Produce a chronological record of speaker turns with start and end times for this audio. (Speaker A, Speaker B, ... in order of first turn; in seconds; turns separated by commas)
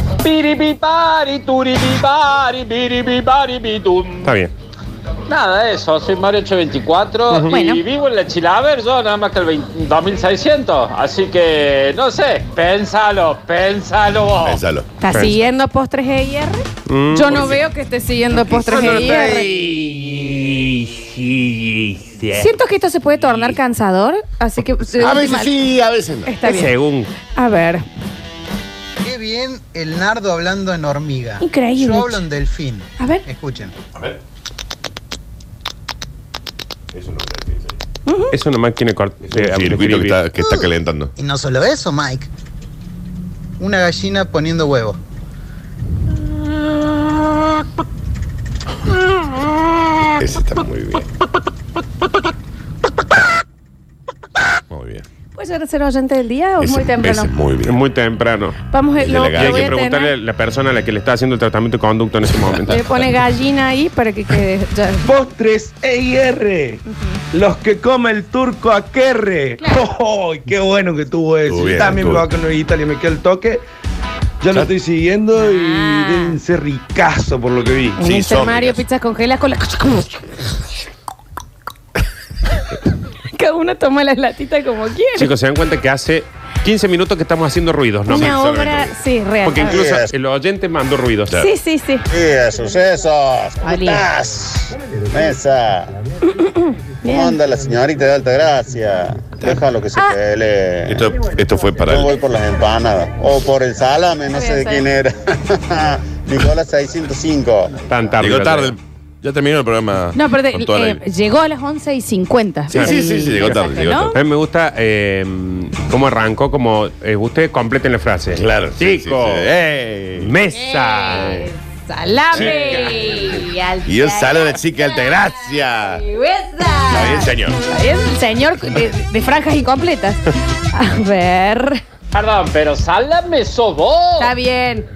Speaker A: 0.2-4.3, Speaker B: 4.2-4.5, Speaker A: 5.3-14.6, Speaker C: 7.3-7.8, Speaker D: 14.4-14.9, Speaker C: 15.0-19.5, Speaker B: 15.1-15.4, Speaker B: 16.9-17.6, Speaker B: 18.5-22.5, Speaker D: 18.7-19.1, Speaker C: 22.3-25.5, Speaker D: 25.0-26.3, Speaker C: 26.2-26.7, Speaker B: 26.4-27.1, Speaker C: 27.3-27.8, Speaker E: 29.0-33.7, Speaker C: 31.4-32.2, Speaker C: 33.0-33.2, Speaker D: 36.9-37.8, Speaker C: 38.0-38.3, Speaker B: 38.3-40.2, Speaker D: 39.3-41.1, Speaker E: 41.2-42.3, Speaker E: 43.6-45.0, Speaker D: 50.2-51.0, Speaker D: 54.7-55.0, Speaker C: 55.3-57.3, Speaker D: 56.6-57.8, Speaker B: 57.6-58.6, Speaker C: 58.7-60.1, Speaker D: 59.0-59.8, Speaker B: 59.3-62.8, Speaker C: 62.7-65.1, Speaker F: 65.0-73.6, Speaker C: 66.9-67.2, Speaker C: 69.6-69.8, Speaker D: 71.5-72.3, Speaker F: 74.4-78.0, Speaker C: 75.3-76.4, Speaker C: 78.0-80.3, Speaker D: 78.0-78.8, Speaker C: 83.3-85.3, Speaker B: 85.1-88.3, Speaker C: 88.1-89.8, Speaker D: 88.1-88.9, Speaker B: 89.4-91.3, Speaker G: 89.6-90.1, Speaker C: 91.3-92.0, Speaker G: 92.1-95.9, Speaker C: 93.6-94.1, Speaker C: 96.4-97.4, Speaker G: 97.0-101.1, Speaker D: 100.9-102.2, Speaker G: 101.8-107.8, Speaker C: 104.3-104.9, Speaker B: 107.9-108.7, Speaker D: 108.2-111.0, Speaker C: 110.1-114.1, Speaker D: 112.7-114.2, Speaker B: 112.7-113.6, Speaker B: 114.1-119.5, Speaker D: 118.3-120.3, Speaker B: 120.2-121.4, Speaker C: 120.5-131.8, Speaker D: 122.3-123.2, Speaker D: 123.8-126.0, Speaker D: 126.9-127.6, Speaker A: 132.1-134.3, Speaker C: 134.2-134.9